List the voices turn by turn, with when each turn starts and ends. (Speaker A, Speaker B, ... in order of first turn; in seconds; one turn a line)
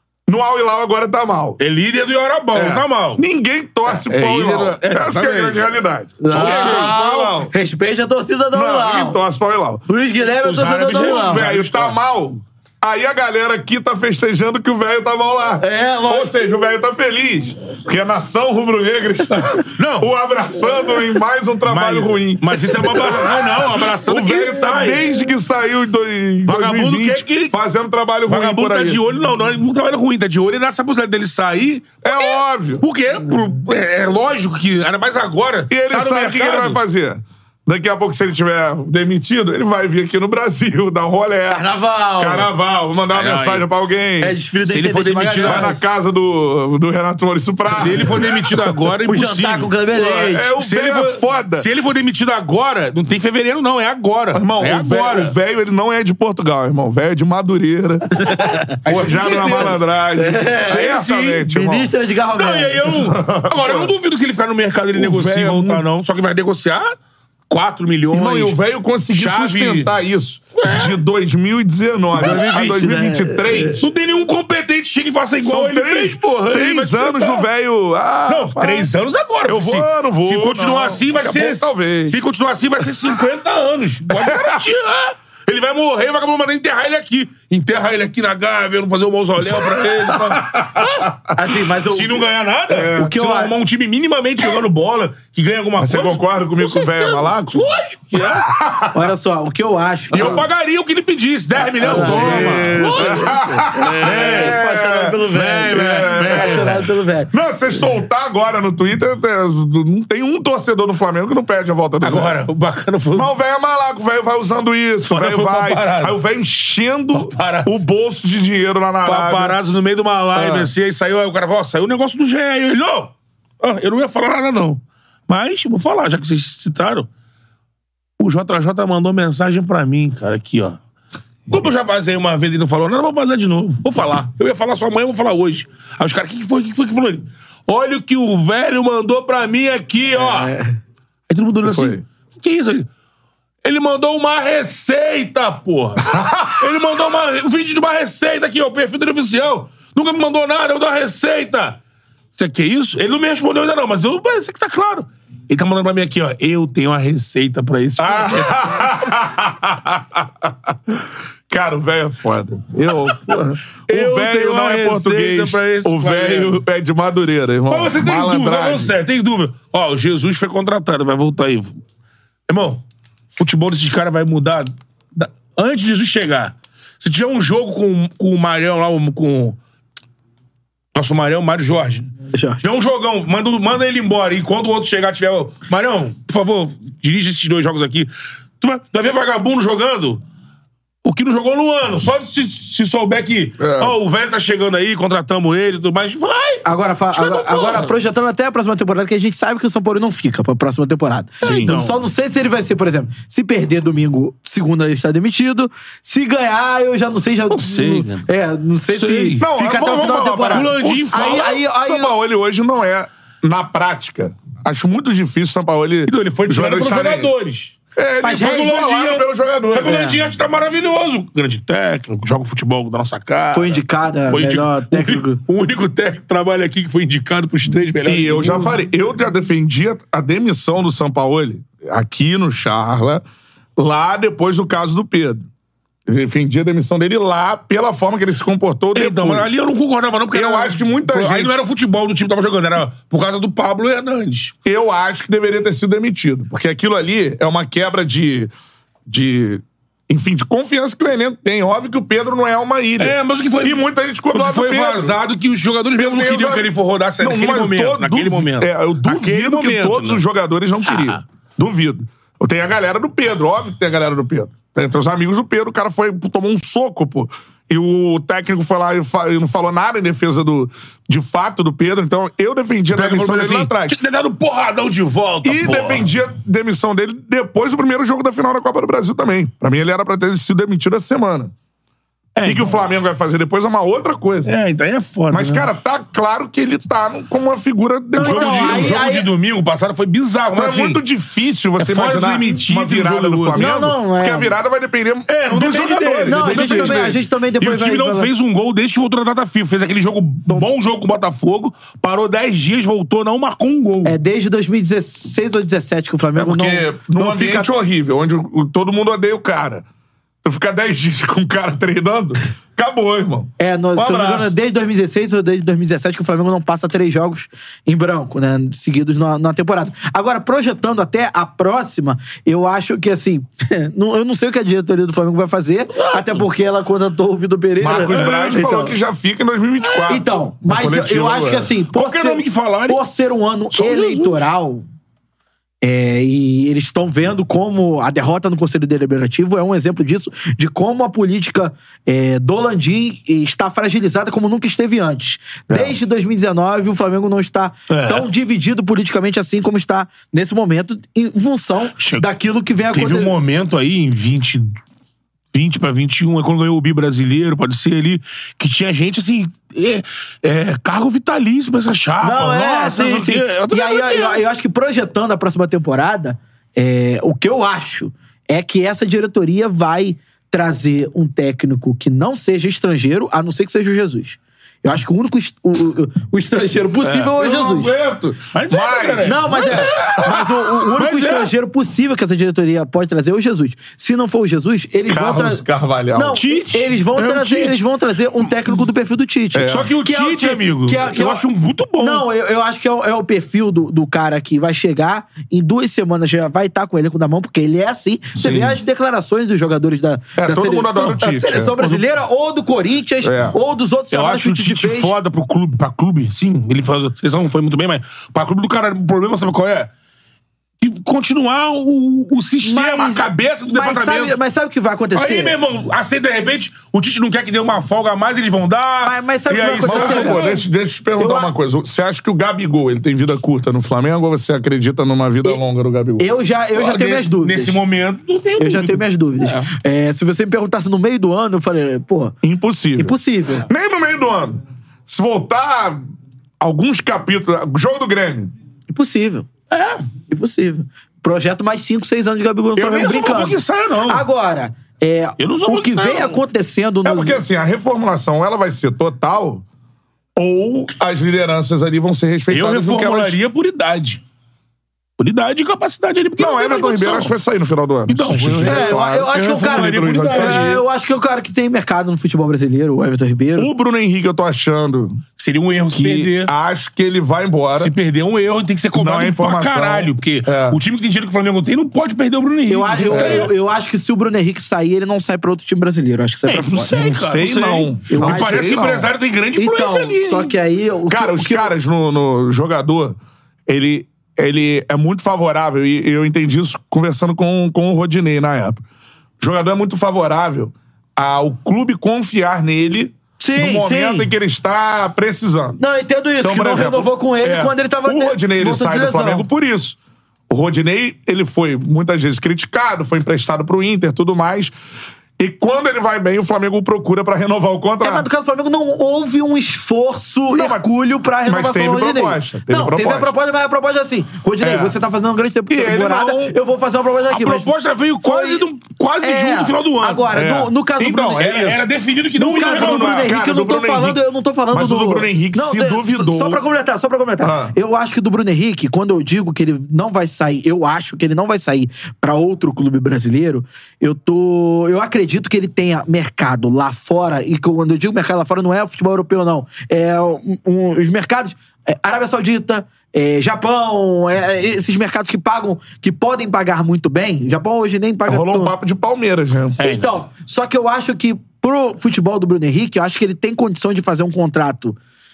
Speaker A: 0.3-1.6
Speaker B: 1.6-3.2
Speaker A: 2.5-7.5
Speaker B: 3.9-5.6
Speaker C: 6.2-9.2
Speaker B: 6.3-7.0
Speaker A: 8.5-9.8
Speaker C: 9.9-11.5
Speaker B: 10.4-12.0
Speaker A: 10.9-29.0
Speaker C: 15.6-16.3
Speaker B: 19.8-20.1
Speaker B: 21.7-25.1
Speaker B: 26.4-27.6
Speaker B: 28.3-36.8
Speaker A: 32.0-32.8
Speaker A: 35.7-44.4
Speaker C: 41.5-42.5
Speaker B: 43.1-43.7
Speaker C: 44.2-45.8
Speaker B: 44.7-45.7
Speaker A: 45.4-48.8
Speaker B: 47.7-49.8
Speaker C: 49.1-50.5
Speaker A: 49.9-51.7
Speaker B: 50.6-55.4
Speaker A: 54.3-58.2
Speaker C: 58.2-58.7
Speaker B: 58.8-59.8
Speaker A: 58.8-61.9
Speaker C: 60.1-63.0
Speaker B: 60.6-61.5
Speaker B: 62.3-67.0
Speaker A: 62.9-63.9
Speaker A: 65.0-65.9
Speaker B: 67.5-68.6
Speaker A: 68.1-73.9
Speaker B: 69.1-69.9
Speaker B: 70.6-71.0
Speaker C: 72.1-73.9
Speaker B: 72.2-72.8
Speaker B: 73.8-77.5
Speaker A: 75.4-78.9
Speaker B: 78.3-91.2
Speaker A: 79.5-82.2
Speaker A: 84.1-84.6
Speaker A: 89.4-91.3
Speaker C: 91.3-92.2
Speaker B: 91.9-98.5
Speaker A: 92.7-93.0
Speaker C: 93.0-93.5
Speaker A: 95.8-99.1
Speaker C: 98.9-100.4
Speaker B: 100.1-104.6
Speaker A: 100.1-100.4
Speaker C: 101.8-107.3
Speaker A: 101.8-106.8
Speaker B: 105.3-106.9
Speaker A: 107.3-112.4
Speaker B: 112.0-113.3
Speaker A: 113.1-119.6
Speaker B: 115.0-116.2
Speaker B: 117.1-117.8
Speaker B: 119.0-127.1
Speaker A: 120.3-120.7
Speaker B: 128.2-130.8
Speaker B: 131.5-140.5
Speaker C: 140.2-140.8
Speaker B: 141.3-142.9
Speaker A: 141.6-142.0
Speaker B: 143.6-151.8
Speaker A: 146.1-146.6
Speaker B: 152.3-158.6
Speaker A: 158.0-168.9
Speaker B: 163.9-166.6
Speaker B: 167.7-171.7
Speaker B: 172.5-172.8
Speaker B: 173.4-179.6
Speaker B: 180.9-190.2
Speaker C: 182.3-182.6
Speaker B: 191.0-197.9
Speaker A: 193.6-194.0
Speaker C: 196.6-212.1
Speaker A: 201.4-201.8
Speaker B: 201.4-202.0
Speaker B: 207.5-208.3
Speaker B: 208.9-209.4
Speaker A: 209.4-217.3
Speaker B: 210.5-211.6
Speaker B: 216.1-217.8
Speaker A: 217.9-219.9
Speaker C: 218.2-218.7
Speaker B: 218.3-228.8
Speaker C: 219.8-220.2
Speaker C: 223.5-225.4
Speaker A: 228.0-233.2
Speaker A: 233.8-235.4
Speaker A: 236.1-239.5
Speaker B: 238.9-244.5
Speaker A: 240.3-241.6
Speaker A: 244.6-248.5
Speaker A: 249.1-255.2
Speaker B: 253.0-260.2
Speaker A: 255.9-274.0
Speaker B: 260.9-261.2
Speaker B: 272.9-276.1
Speaker A: 275.4-281.5
Speaker B: 282.4-282.8
Speaker A: 282.4-284.5
Speaker B: 284.4-285.7
Speaker A: 285.3-289.0
Speaker C: 288.1-289.3
Speaker B: 288.2-291.0
Speaker A: 290.6-297.2
Speaker B: 291.8-293.6
Speaker C: 293.6-294.6
Speaker B: 295.3-304.2
Speaker C: 296.2-298.3
Speaker C: 304.1-307.7
Speaker A: 306.4-309.9
Speaker A: 310.4-314.5
Speaker C: 313.6-329.0
Speaker B: 325.9-326.4
Speaker A: 327.8-331.7
Speaker B: 328.0-328.7
Speaker B: 329.8-330.2
Speaker C: 330.1-334.9
Speaker B: 331.9-333.0
Speaker B: 333.7-334.4
Speaker C: 335.8-353.3
Speaker B: 347.9-348.3
Speaker B: 352.0-352.2
Speaker B: 352.9-354.8
Speaker B: 355.5-364.4
Speaker C: 362.2-377.9
Speaker B: 377.0-377.9
Speaker A: 377.4-379.8
Speaker B: 378.5-381.5
Speaker C: 379.2-391.4
Speaker A: 385.1-386.4
Speaker B: 386.4-387.8
Speaker A: 389.5-389.9
Speaker B: 389.7-392.3
Speaker C: 392.0-405.1
Speaker A: 398.4-398.8
Speaker A: 400.4-401.8
Speaker B: 401.8-402.0
Speaker A: 403.2-403.6
Speaker B: 404.1-409.9
Speaker B: 410.8-414.4
Speaker C: 412.6-415.6
Speaker B: 415.1-420.6
Speaker C: 419.0-420.5
Speaker A: 419.8-426.3
Speaker C: 421.2-421.5
Speaker C: 426.2-427.8
Speaker B: 426.7-429.7
Speaker C: 428.6-432.4
Speaker A: 432.4-436.0
Speaker C: 432.9-433.7
Speaker A: 436.6-438.5
Speaker C: 438.9-439.5
Speaker B: 439.7-440.1
Speaker C: 440.3-447.4
Speaker B: 442.8-444.2
Speaker B: 445.4-446.4
Speaker A: 447.1-449.6
Speaker A: 450.4-453.4
Speaker B: 452.5-454.2
Speaker B: 455.2-457.3
Speaker A: 456.4-460.8
Speaker B: 458.1-460.8
Speaker C: 458.6-463.7
Speaker A: 463.6-465.2
Speaker B: 465.4-466.5
Speaker A: 465.9-467.9
Speaker B: 467.8-473.5
Speaker A: 468.9-470.8
Speaker C: 472.7-477.0
Speaker A: 473.1-473.5
Speaker B: 476.5-480.5
Speaker A: 476.9-479.1
Speaker C: 478.1-478.6
Speaker C: 479.6-481.7
Speaker A: 481.1-488.8
Speaker A: 489.4-495.8
Speaker C: 493.4-494.3
Speaker C: 495.8-499.4
Speaker A: 496.4-500.0
Speaker A: 500.5-504.7
Speaker A: 505.4-508.3
Speaker C: 508.0-518.7
Speaker A: 510.5-510.9
Speaker A: 511.4-513.3
Speaker A: 514.6-515.0
Speaker A: 515.7-516.5
Speaker B: 517.3-520.3
Speaker C: 519.2-521.6
Speaker A: 520.3-521.9
Speaker B: 521.4-523.3
Speaker C: 522.4-548.7
Speaker A: 522.4-526.6
Speaker A: 527.4-527.8
Speaker A: 548.3-549.8
Speaker B: 549.8-550.1
Speaker C: 549.8-555.0